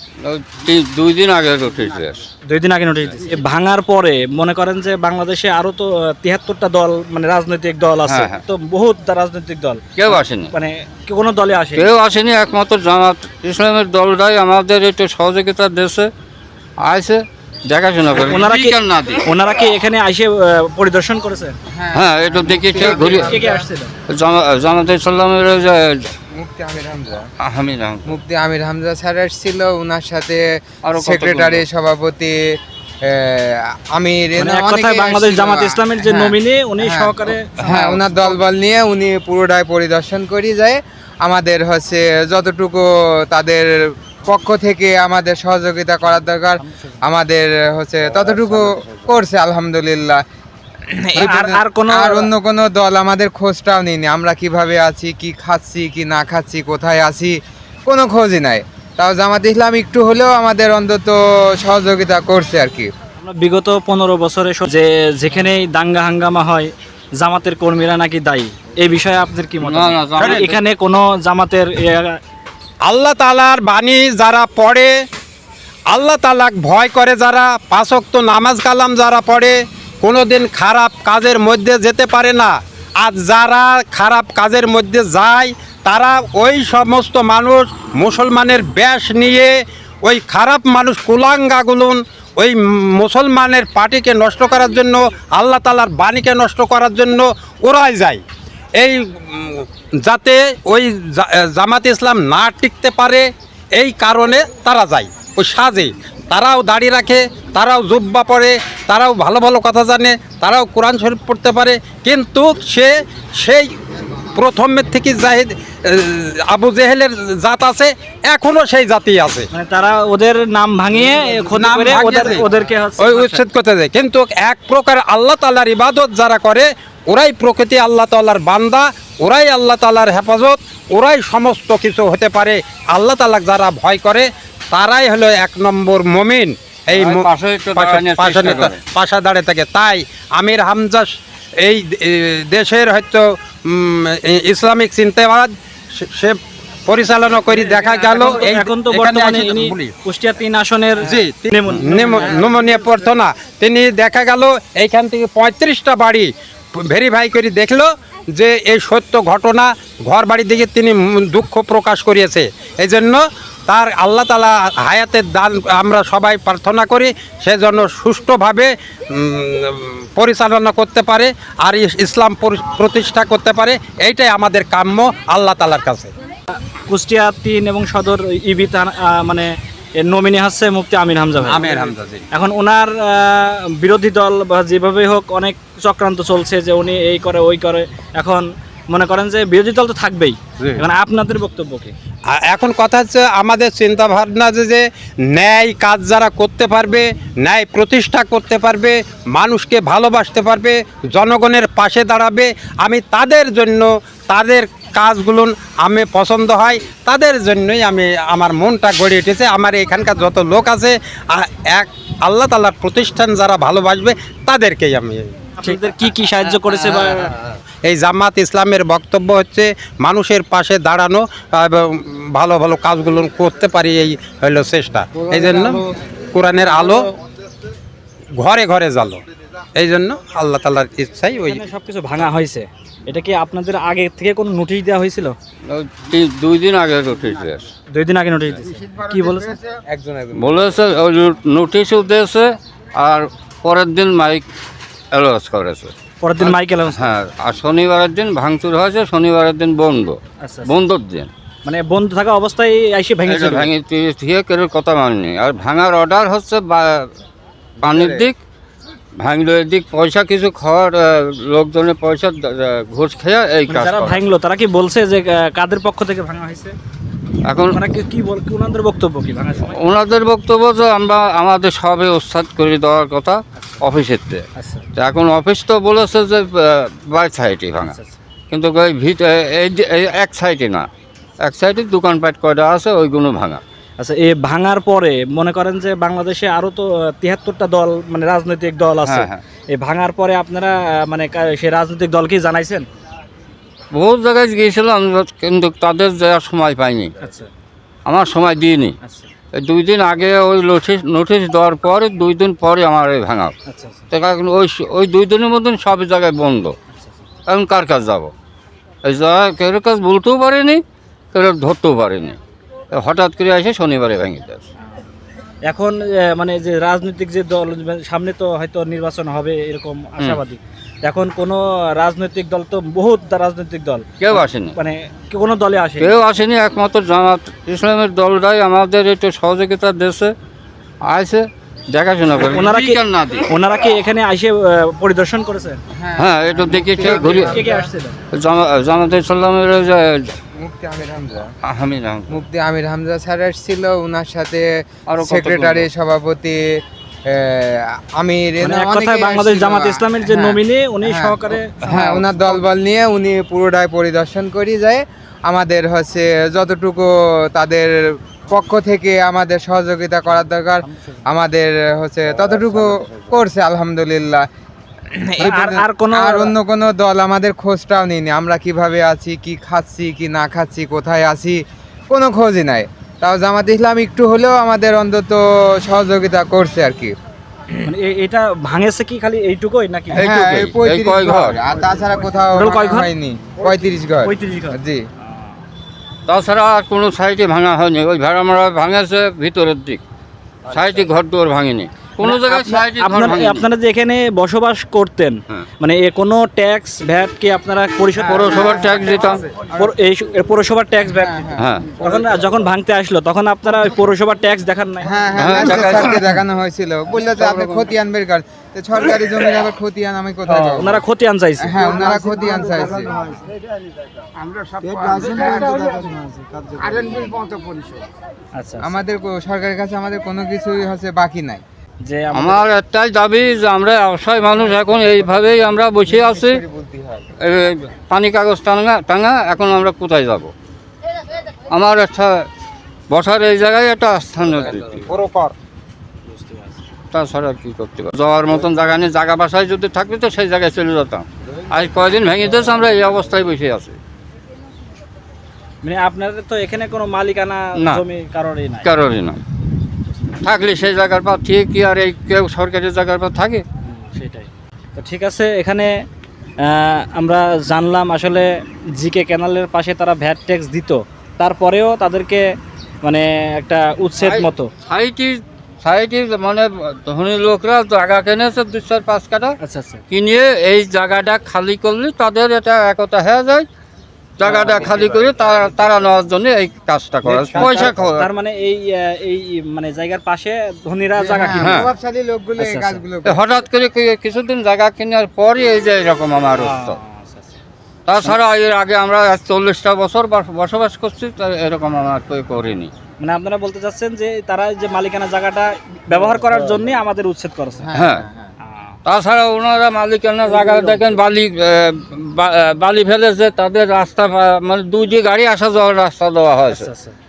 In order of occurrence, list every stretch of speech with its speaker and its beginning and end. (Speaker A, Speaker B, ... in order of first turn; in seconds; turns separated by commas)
Speaker A: 0.2-2.2, Speaker B: 2.5-11.9, Speaker A: 8.0-8.4, Speaker A: 9.9-10.5, Speaker A: 11.7-16.1, Speaker A: 16.8-19.2, Speaker B: 18.2-21.5, Speaker C: 21.7-23.6, Speaker A: 21.9-23.4, Speaker B: 22.8-23.9, Speaker A: 24.1-26.1, Speaker C: 26.3-27.2, Speaker A: 27.4-28.1, Speaker C: 28.1-32.5, Speaker A: 30.8-31.6, Speaker C: 33.0-50.2, Speaker B: 34.4-38.4, Speaker B: 50.9-52.3, Speaker C: 51.1-57.3, Speaker C: 57.9-62.9, Speaker B: 63.2-72.2, Speaker A: 69.6-70.6, Speaker D: 70.2-70.5, Speaker D: 72.8-74.9, Speaker D: 75.9-98.2, Speaker D: 98.8-113.7, Speaker D: 114.3-119.5, Speaker B: 119.5-123.4, Speaker D: 121.5-122.4, Speaker D: 123.0-141.1, Speaker A: 136.9-138.8, Speaker D: 141.6-149.9, Speaker B: 147.5-152.4, Speaker D: 151.0-176.1, Speaker B: 176.9-191.9, Speaker D: 181.4-182.2, Speaker D: 192.3-215.3, Speaker B: 215.6-217.3, Speaker D: 217.8-227.1, Speaker D: 228.4-229.2, Speaker D: 229.8-231.6, Speaker B: 231.4-235.3, Speaker A: 235.7-237.7, Speaker B: 237.9-239.6, Speaker C: 239.7-240.7, Speaker A: 240.3-244.4, Speaker A: 245.1-251.3, Speaker B: 246.2-247.1, Speaker B: 250.4-250.7, Speaker B: 251.6-253.7, Speaker A: 253.2-257.1, Speaker A: 257.8-258.4, Speaker A: 259.2-264.2, Speaker B: 263.7-266.7, Speaker A: 267.4-267.8, Speaker B: 267.7-269.8, Speaker A: 269.6-274.4, Speaker B: 274.6-274.9, Speaker A: 274.9-277.9, Speaker B: 277.8-278.1, Speaker A: 278.5-280.9, Speaker A: 281.4-283.6, Speaker B: 284.0-292.9, Speaker A: 289.0-289.4, Speaker A: 293.9-297.1, Speaker B: 297.2-297.5, Speaker A: 298.0-298.9, Speaker B: 299.0-299.3, Speaker A: 299.5-303.5, Speaker B: 303.7-304.1, Speaker A: 304.1-306.7, Speaker A: 307.5-308.3, Speaker A: 309.0-310.8, Speaker A: 311.3-312.4, Speaker A: 312.9-314.6, Speaker B: 315.6-326.1, Speaker A: 324.2-324.7, Speaker A: 326.0-330.3, Speaker A: 331.0-333.4, Speaker B: 332.4-335.8, Speaker C: 335.9-337.9, Speaker A: 336.2-337.6, Speaker B: 337.0-338.2, Speaker A: 338.3-340.3, Speaker C: 340.6-341.5, Speaker A: 341.6-342.4, Speaker C: 342.3-346.7, Speaker A: 345.1-345.9, Speaker C: 347.3-364.4, Speaker B: 348.6-351.8, Speaker A: 351.8-352.2, Speaker B: 365.1-366.5, Speaker C: 365.4-377.1, Speaker B: 377.8-380.2, Speaker C: 380.1-385.0, Speaker A: 380.1-381.6, Speaker B: 382.5-383.1, Speaker B: 384.2-385.6, Speaker A: 386.3-390.0, Speaker A: 390.7-393.6, Speaker B: 392.2-399.0, Speaker A: 398.2-399.4, Speaker C: 398.6-399.9, Speaker B: 399.7-405.1, Speaker C: 401.0-402.3, Speaker A: 401.6-401.9, Speaker C: 405.0-411.0, Speaker A: 405.4-406.4, Speaker A: 407.3-407.8, Speaker B: 410.5-411.8, Speaker C: 411.6-413.3, Speaker C: 414.9-416.1, Speaker B: 418.6-418.9, Speaker C: 418.8-421.6, Speaker B: 422.0-422.6, Speaker A: 422.3-426.6, Speaker C: 426.1-427.2, Speaker A: 427.4-430.5, Speaker A: 431.7-432.4, Speaker A: 433.1-435.0, Speaker D: 434.6-435.5, Speaker B: 436.3-436.7, Speaker A: 437.1-443.9, Speaker B: 445.8-448.9, Speaker A: 447.8-448.0, Speaker A: 448.8-449.4, Speaker A: 450.4-453.6, Speaker B: 453.8-456.0, Speaker B: 456.6-464.7, Speaker A: 464.2-469.6, Speaker B: 469.6-470.0, Speaker A: 470.1-473.7, Speaker A: 474.4-478.3, Speaker D: 477.2-478.0, Speaker B: 477.6-481.9, Speaker C: 481.1-483.6, Speaker A: 481.6-481.9, Speaker B: 482.6-483.0, Speaker A: 483.2-487.0, Speaker B: 486.6-487.6, Speaker A: 488.1-492.9, Speaker B: 493.2-497.9, Speaker C: 497.8-498.5, Speaker A: 497.9-498.3, Speaker B: 498.6-498.9, Speaker A: 499.1-506.9, Speaker B: 506.7-507.1